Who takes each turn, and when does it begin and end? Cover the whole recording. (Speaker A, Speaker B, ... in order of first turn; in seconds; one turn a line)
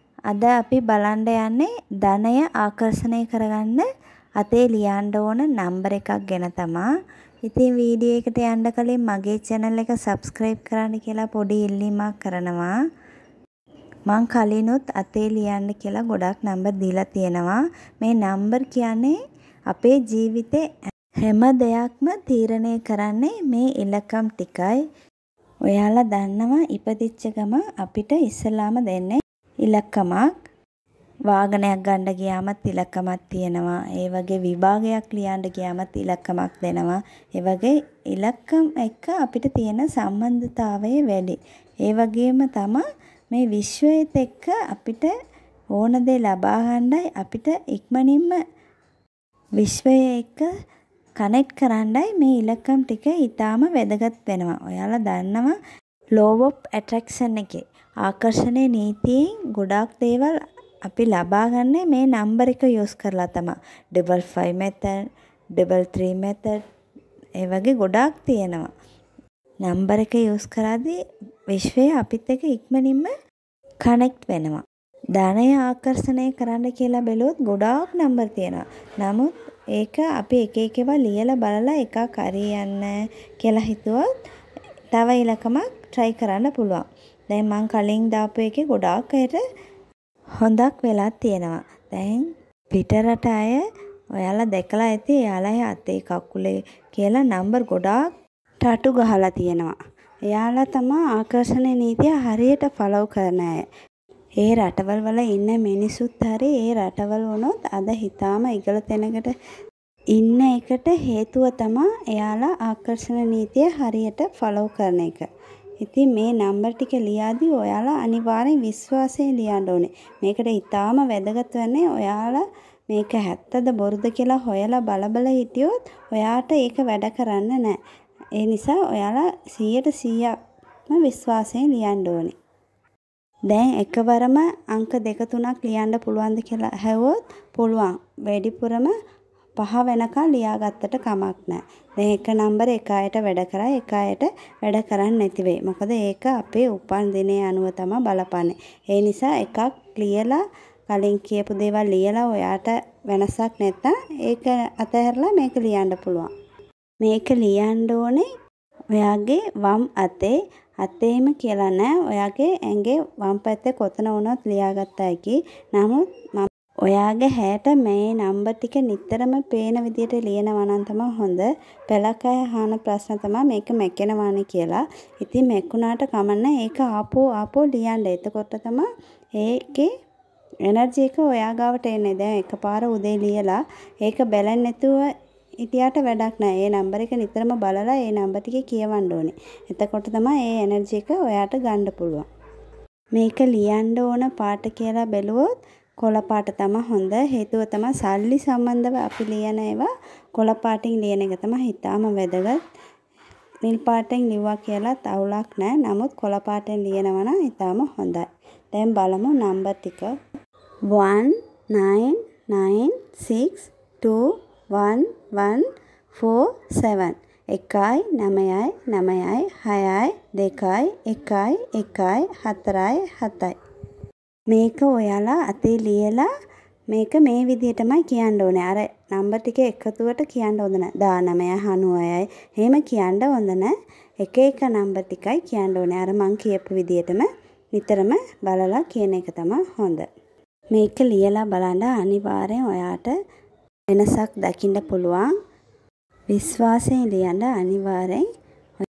Speaker A: 0.3-3.9
Speaker A: 4.4-6.9
Speaker A: 7.5-12.7
Speaker A: 14.1-19.1
Speaker A: 19.7-20.6
Speaker A: 21.2-24.8
Speaker A: 25.7-30.3
Speaker A: 31.3-45.1
Speaker A: 45.8-48.4
Speaker A: 49.6-50.5
Speaker A: 51.2-55.5
Speaker A: 56.1-60.4
Speaker A: 60.9-65.0
Speaker A: 65.6-66.6
Speaker A: 67.4-68.7
Speaker A: 69.6-70.9
Speaker A: 71.5-73.1
Speaker A: 73.8-74.6
Speaker A: 75.2-82.9
Speaker A: 83.4-84.1
Speaker A: 84.9-89.4
Speaker A: 90.4-93.6
Speaker A: 94.2-98.0
Speaker A: 98.6-99.8
Speaker A: 100.3-103.6
Speaker A: 104.4-109.3
Speaker A: 110.2-115.3
Speaker A: 115.8-127.8
Speaker A: 128.4-130.3
Speaker A: 130.9-132.3
Speaker A: 133.5-138.9
Speaker A: 139.6-156.3
Speaker A: 157.0-158.3
Speaker A: 158.9-178.9
Speaker A: 179.4-179.9
Speaker A: 180.7-185.0
Speaker A: 185.6-192.3
Speaker A: 193.2-195.5
Speaker A: 196.0-202.6
Speaker A: 203.7-210.1
Speaker A: 210.9-223.5
Speaker A: 224.5-226.3
Speaker A: 226.9-240.1
Speaker A: 240.7-243.1
Speaker A: 243.9-245.3
Speaker A: 246.3-248.2